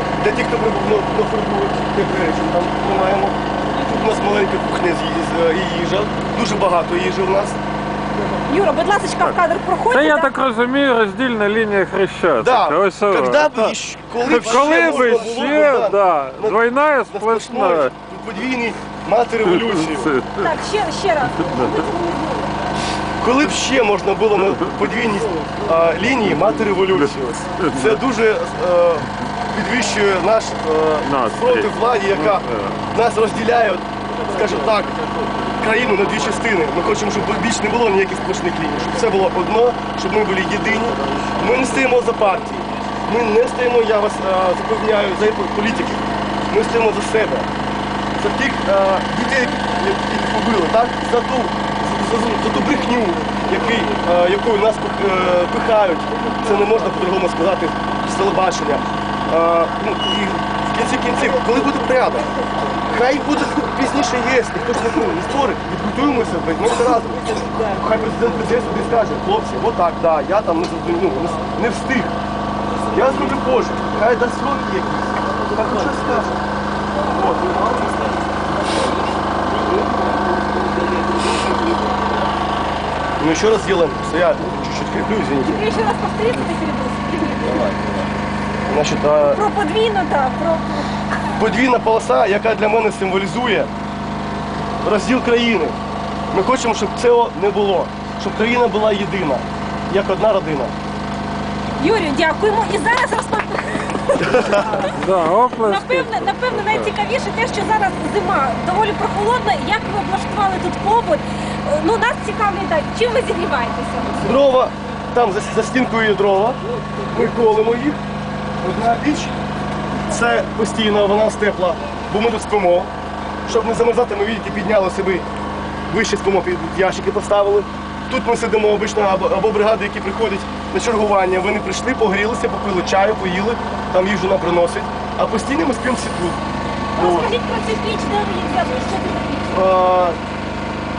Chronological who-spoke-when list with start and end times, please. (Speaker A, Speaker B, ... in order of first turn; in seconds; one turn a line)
Speaker A: 0.2-7.6
Speaker B: 8.5-10.3
Speaker C: 9.2-17.9
Speaker A: 12.4-16.6
Speaker A: 17.1-20.1
Speaker C: 19.5-20.5
Speaker B: 20.4-22.5
Speaker A: 23.2-35.0
Speaker C: 27.0-28.0
Speaker C: 31.0-32.8
Speaker A: 35.6-47.5
Speaker A: 48.2-62.3
Speaker A: 62.9-72.1
Speaker A: 72.9-76.4
Speaker A: 77.1-78.2
Speaker B: 79.5-81.9
Speaker A: 83.2-85.6
Speaker B: 85.4-87.8
Speaker A: 88.7-89.4
Speaker B: 89.3-91.4
Speaker A: 91.4-93.7
Speaker A: 94.8-95.8
Speaker A: 96.3-100.8
Speaker B: 101.8-105.0
Speaker A: 104.3-104.7
Speaker C: 104.9-106.9
Speaker B: 105.6-114.3
Speaker A: 114.2-116.6
Speaker A: 117.1-118.0
Speaker A: 118.6-119.4
Speaker A: 120.1-122.9
Speaker A: 123.5-125.3
Speaker A: 125.9-136.4
Speaker B: 136.9-139.6
Speaker A: 137.0-137.3
Speaker A: 139.5-140.2